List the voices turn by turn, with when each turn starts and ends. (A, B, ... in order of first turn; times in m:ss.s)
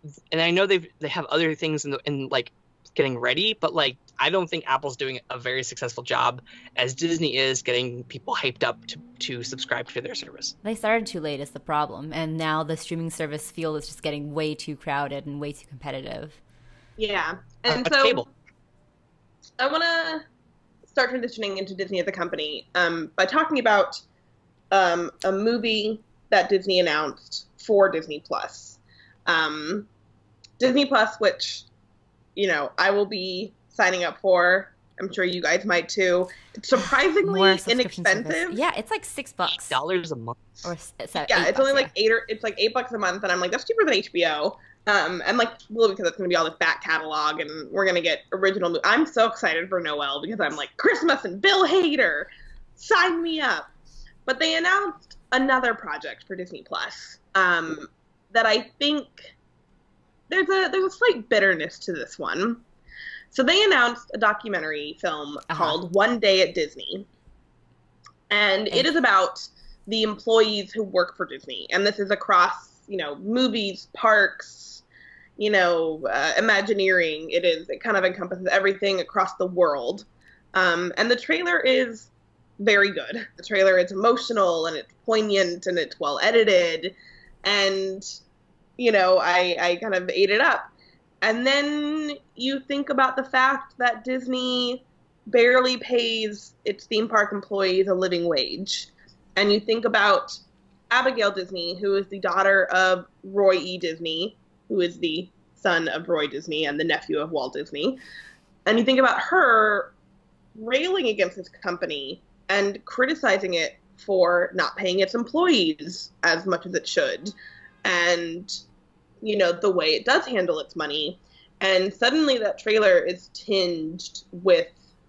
0:00.3-0:10.5 A
0:10.6-0:16.4 B
0:17.0-0:18.2 C
0:17.7-0:18.2 A
0:19.6-0:20.2 C
0:20.8-0:24.0 C
0:24.7-0:29.9 C
0:30.6-0:31.6 C
0:32.4-0:38.6 C
0:36.7-0:39.8 B
0:39.6-0:40.5 A
0:40.6-0:41.9 B
0:41.2-0:53.7 C
0:54.2-0:59.3 C
1:00.3-1:02.6 C
1:03.3-1:07.0 C
1:05.5-1:05.8 B
1:08.3-1:14.8 C
1:15.4-1:28.2 C
1:28.8-1:30.7 C
1:31.2-1:40.4 C
1:40.9-1:48.0 C
1:48.7-1:49.9 C
1:50.5-1:58.6 C
1:59.2-2:04.8 C